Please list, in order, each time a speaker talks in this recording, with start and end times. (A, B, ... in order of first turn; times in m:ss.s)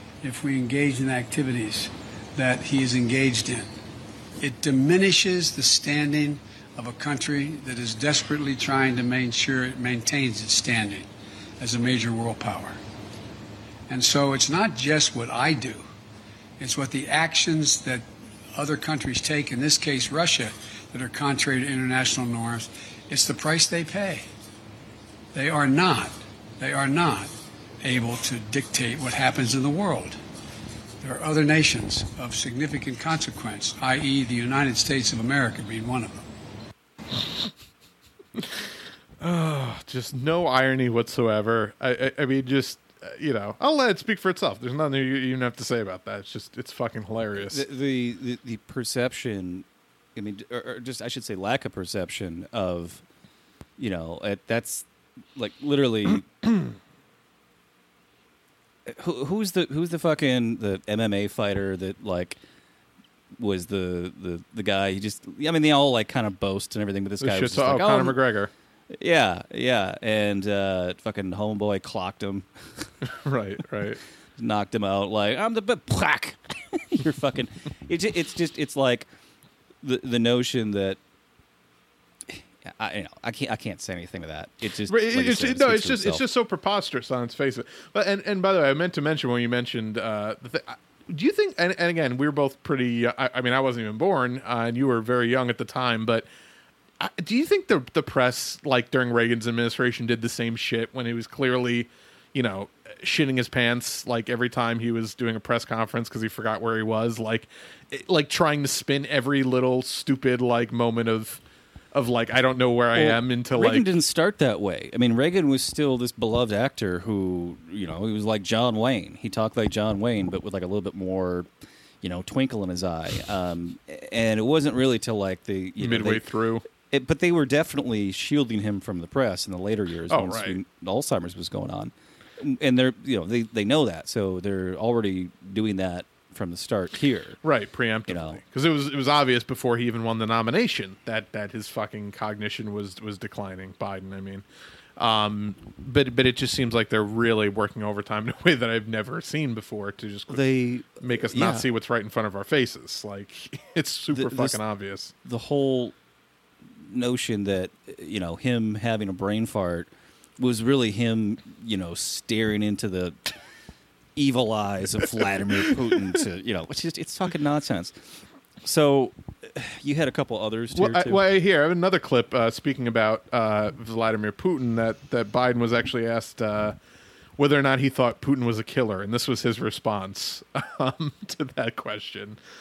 0:00.2-0:03.7 A
0:04.4-0:11.1 A
0:11.6-0:12.8 A
0:13.9-0:15.8 A
0:16.6-0:18.0 A
0:18.6-0:24.3 A
0:25.3-0:30.2 A
0:31.0-0:36.2 A
0:38.4-0:38.7 B
0:39.2-0:47.6 B
0:47.4-0:49.6 C
0:50.2-0:53.0 C
0:53.8-0:54.8 C
0:55.4-0:56.3 C
0:58.9-1:02.4 C
1:03.4-1:08.2 C
1:07.2-1:08.5 B
1:08.9-1:12.9 C
1:13.2-1:14.0 B
1:14.4-1:19.1 C
1:19.8-1:21.0 C
1:22.3-1:26.2 C
1:24.9-1:36.3 B
1:37.0-1:51.4 B
1:51.9-1:53.9 B
1:53.0-2:01.5 C
2:02.0-2:06.2 C
2:05.8-2:06.6 B
2:06.9-2:17.4 C
2:10.1-2:10.6 B
2:17.4-2:24.4 B
2:18.1-2:18.4 C
2:25.0-2:30.4 B
2:30.3-2:31.7 C
2:31.0-2:35.1 B
2:34.1-2:34.6 C
2:35.2-2:35.9 C
2:36.8-2:39.9 C
2:40.4-2:43.3 C
2:44.2-2:51.2 C
2:50.8-2:56.8 B
2:57.4-3:02.4 B